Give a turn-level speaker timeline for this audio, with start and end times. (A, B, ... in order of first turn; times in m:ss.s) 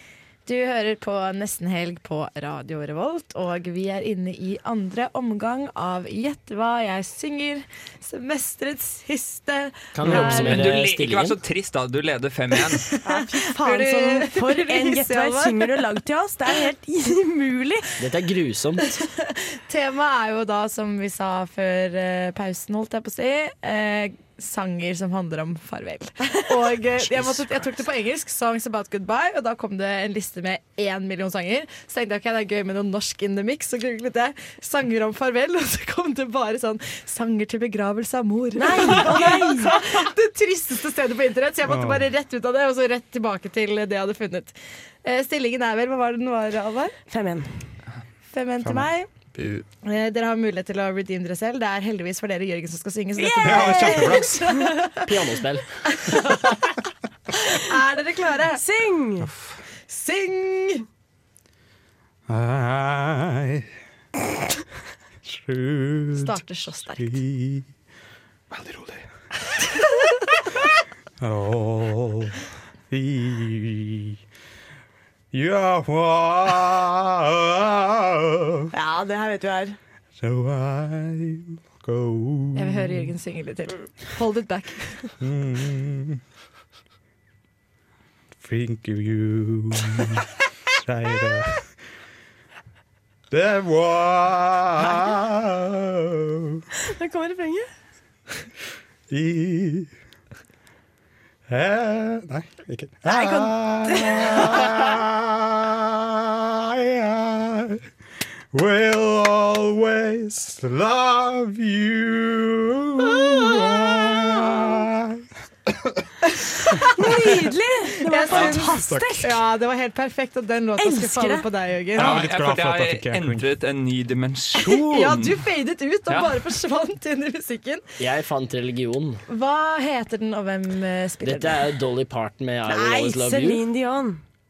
0:00.5-0:10.6 A
0:09.9-0:11.4 B
0:10.1-0:12.9 C
0:12.9-0:15.8 A
0:13.0-0:17.9 D
0:18.0-0:18.9 B
0:18.8-0:47.0 A
0:26.9-0:27.6 B
0:38.6-0:39.9 D
0:41.6-0:42.1 E
0:47.1-0:47.5 D
0:48.3-0:49.1 A
0:49.4-0:49.6 B
0:49.8-0:55.1 A
0:53.2-0:54.4 D
0:53.4-0:54.6 E
0:55.0-0:55.7 B
0:55.8-0:56.6 A
0:57.4-0:58.6 A
0:58.5-0:59.3 D
0:59.9-1:00.8 A
1:02.3-1:03.7 E
1:05.2-1:06.4 E
1:06.2-1:07.2 A
1:07.0-1:07.7 E
1:08.5-1:09.0 E
1:11.2-1:12.4 E
1:12.9-1:14.2 E
1:15.3-1:18.7 E
1:18.7-1:19.8 D
1:20.2-1:23.1 E
1:22.6-1:25.1 A
1:25.2-1:26.2 E
1:28.4-1:30.3 E
1:30.8-1:31.7 E
1:33.3-1:36.6 E
1:36.9-1:37.7 D
1:39.1-1:39.9 E
1:41.5-1:47.8 E
1:43.1-1:43.5 D
1:44.1-1:44.6 A
1:48.5-1:55.2 E
1:56.5-1:56.9 A
1:57.0-1:59.3 D
1:58.1-2:02.2 A
1:58.3-1:58.6 C
1:58.9-1:59.2 E
2:00.8-2:01.5 D
2:02.0-2:03.4 E
2:02.0-2:05.4 C
2:04.6-2:07.9 A
2:06.1-2:06.5 C
2:08.0-2:09.2 B
2:09.3-2:11.8 A
2:11.2-2:13.6 B
2:12.7-2:14.2 D